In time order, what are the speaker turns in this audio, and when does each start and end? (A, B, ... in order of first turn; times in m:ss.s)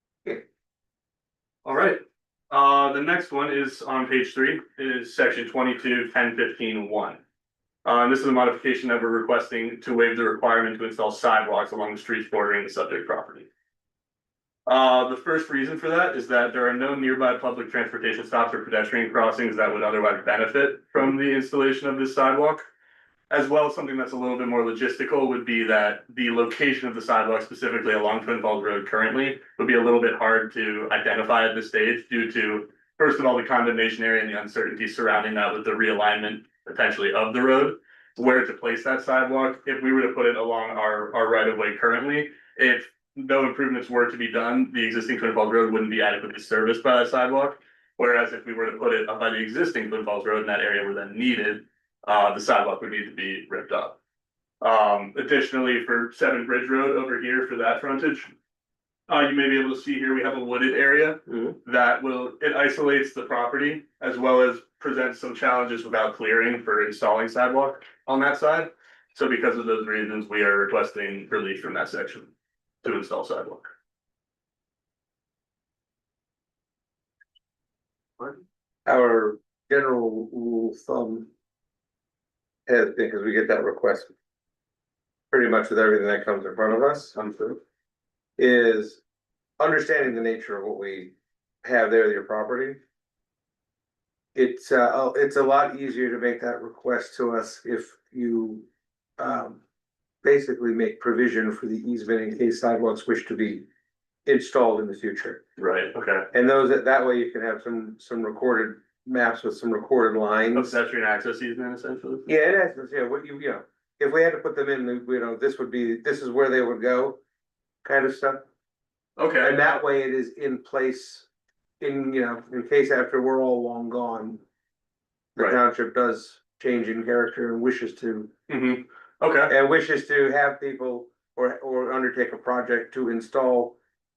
0:01.6-0:07.2 A
0:07.8-0:13.5 A
0:14.7-0:22.7 A
0:23.3-0:54.0 A
0:54.6-0:58.3 A
0:59.1-1:12.3 A
1:12.8-1:13.7 A
1:18.9-1:21.3 B
1:22.7-1:24.1 B
1:25.3-1:27.6 B
1:28.4-1:29.0 B
1:29.6-1:32.8 B
1:34.4-1:38.7 B
1:39.2-1:39.6 B
1:40.2-1:43.7 B
1:44.3-1:45.4 B
1:45.6-1:46.3 A
1:46.3-1:50.7 B
1:50.6-1:52.3 A
1:52.3-1:57.2 B
1:57.8-1:58.5 B
1:59.2-1:59.6 A
1:59.4-2:01.3 B
2:01.8-2:04.4 B
2:05.4-2:08.3 B
2:08.5-2:09.5 A
2:09.5-2:13.8 B